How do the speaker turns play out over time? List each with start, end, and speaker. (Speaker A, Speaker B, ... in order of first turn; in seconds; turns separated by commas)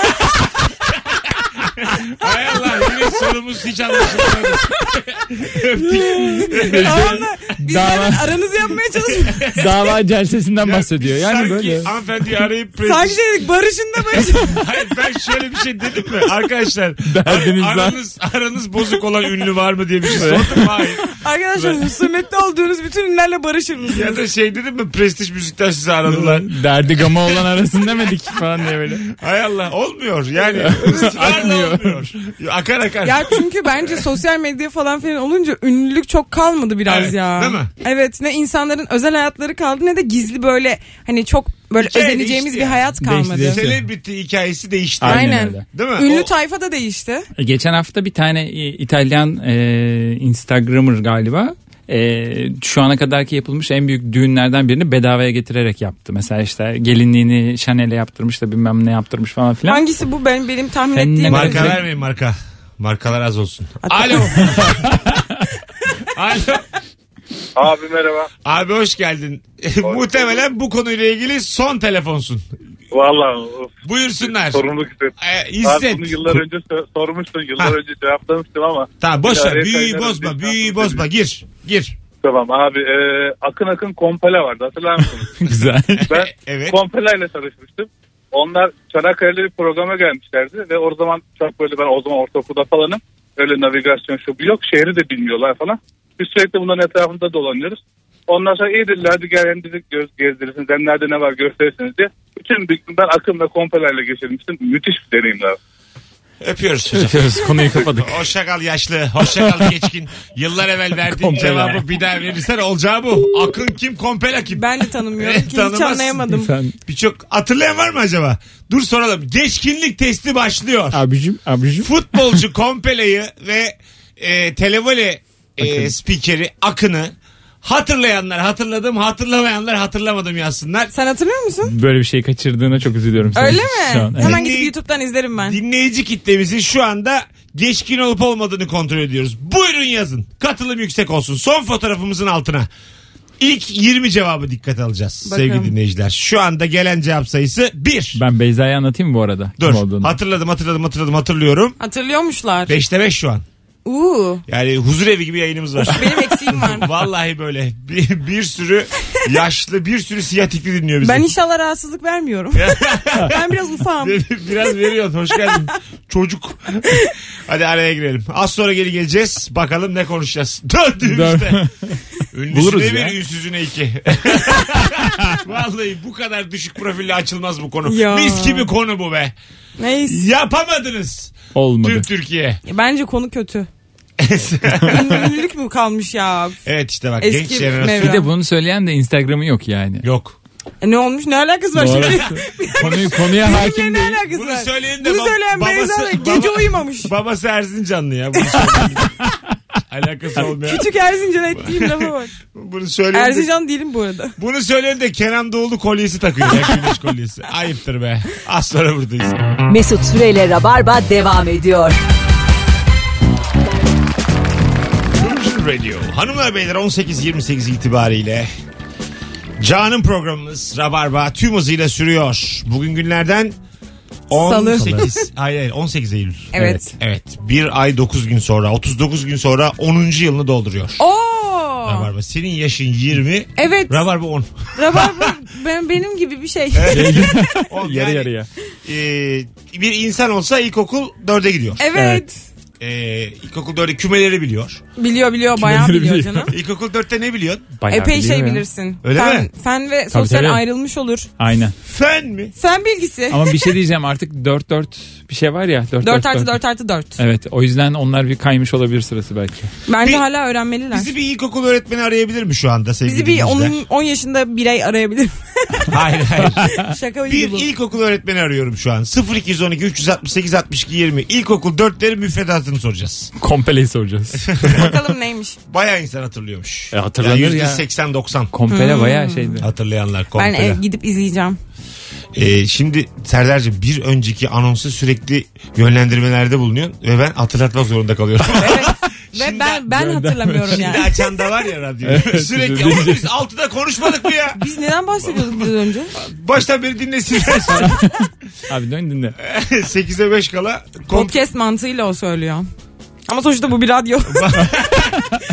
Speaker A: 1.8-7.2, Speaker B: 6.2-9.5, Speaker C: 6.5-8.2, Speaker A: 9.4-9.7, Speaker C: 9.6-11.9, Speaker A: 10.6-13.2, Speaker B: 12.8-14.6, Speaker A: 14.1-21.0, Speaker C: 17.1-18.0, Speaker C: 20.1-20.7, Speaker B: 21.2-24.2, Speaker A: 23.8-26.5, Speaker C: 26.1-29.1, Speaker A: 29.0-33.3, Speaker C: 30.6-32.1, Speaker B: 33.0-43.6, Speaker A: 36.9-37.7, Speaker A: 41.8-42.9, Speaker C: 43.0-43.8, Speaker A: 43.4-46.3, Speaker C: 45.0-45.6, Speaker B: 45.1-47.3, Speaker C: 47.4-59.8, Speaker B: 59.7-61.8, Speaker C: 61.0-61.8, Speaker A: 61.3-64.9, Speaker B: 63.8-64.5, Speaker C: 64.8-65.2, Speaker A: 66.1-66.7, Speaker D: 67.6-68.3, Speaker A: 68.5-72.4, Speaker D: 72.9-73.7, Speaker A: 73.8-74.7, Speaker D: 74.3-75.1, Speaker A: 75.2-76.4, Speaker D: 75.6-81.0, Speaker A: 79.0-82.0, Speaker D: 82.2-85.4, Speaker C: 85.4-86.1, Speaker A: 86.0-86.8, Speaker D: 86.1-105.6, Speaker A: 106.4-116.2, Speaker C: 106.9-108.2, Speaker C: 109.4-109.7, Speaker C: 111.1-111.8, Speaker B: 114.5-116.5, Speaker C: 116.3-116.8, Speaker A: 116.9-121.0, Speaker C: 120.9-121.9, Speaker A: 121.8-130.9, Speaker C: 125.6-125.9, Speaker B: 130.9-131.7, Speaker C: 131.7-134.4, Speaker B: 133.3-135.6, Speaker A: 134.2-134.7, Speaker A: 135.4-142.7, Speaker A: 143.4-148.2, Speaker B: 145.3-145.7, Speaker C: 148.2-150.2, Speaker A: 149.6-151.8, Speaker B: 151.8-152.8, Speaker A: 152.7-153.4, Speaker B: 153.8-154.4, Speaker A: 154.5-161.3, Speaker B: 155.9-156.9, Speaker B: 161.0-164.2, Speaker A: 162.6-163.4, Speaker A: 164.0-171.6, Speaker C: 171.1-173.2, Speaker A: 172.3-179.3, Speaker B: 177.8-178.7, Speaker B: 179.8-180.2, Speaker A: 180.1-182.6, Speaker C: 181.6-182.1, Speaker B: 182.7-183.7, Speaker A: 184.2-185.3, Speaker B: 184.9-186.6, Speaker A: 186.7-188.2, Speaker B: 187.2-188.3, Speaker C: 188.0-190.1, Speaker A: 190.0-190.4, Speaker B: 190.8-197.1, Speaker C: 191.8-194.2, Speaker A: 192.0-192.2, Speaker A: 192.8-193.2, Speaker A: 194.3-199.2, Speaker A: 199.9-200.9, Speaker B: 200.6-202.3, Speaker A: 201.6-203.5, Speaker B: 203.1-204.3, Speaker A: 204.4-209.4, Speaker E: 209.7-212.0, Speaker A: 215.2-218.5, Speaker A: 219.6-223.6, Speaker A: 224.3-231.0, Speaker B: 224.3-225.3, Speaker B: 226.5-226.9, Speaker C: 226.6-226.8, Speaker B: 231.0-232.1, Speaker A: 231.8-235.3, Speaker B: 233.6-234.0, Speaker B: 234.8-237.4, Speaker A: 236.7-238.3, Speaker C: 236.9-238.5, Speaker A: 238.8-241.8, Speaker B: 241.8-242.3, Speaker C: 241.9-242.3, Speaker A: 242.8-244.8, Speaker B: 245.0-246.5, Speaker C: 245.6-246.5, Speaker A: 246.5-247.7, Speaker C: 247.8-248.6, Speaker B: 247.9-251.3, Speaker A: 249.0-249.5, Speaker C: 250.1-250.6, Speaker C: 251.4-251.8, Speaker A: 251.8-252.5, Speaker B: 252.6-253.7, Speaker C: 253.3-256.6, Speaker B: 256.0-257.2, Speaker C: 257.2-259.7, Speaker B: 259.9-261.1, Speaker A: 260.9-263.8, Speaker B: 263.1-266.0, Speaker A: 265.9-266.8, Speaker C: 266.5-266.9, Speaker B: 266.8-267.7, Speaker A: 267.3-273.3, Speaker C: 273.4-274.9, Speaker A: 274.4-274.9, Speaker B: 274.6-275.6, Speaker A: 275.7-278.5, Speaker C: 276.9-277.8, Speaker C: 278.5-279.7, Speaker B: 278.7-279.5, Speaker A: 279.6-280.8, Speaker B: 280.4-281.6, Speaker A: 282.4-289.9, Speaker B: 288.6-291.3, Speaker C: 289.9-291.0, Speaker A: 290.7-294.6, Speaker C: 292.1-293.3, Speaker B: 294.6-296.1, Speaker A: 295.2-298.1, Speaker C: 297.7-299.4, Speaker A: 299.4-301.4, Speaker B: 301.1-302.7, Speaker B: 303.3-304.7, Speaker A: 304.3-305.2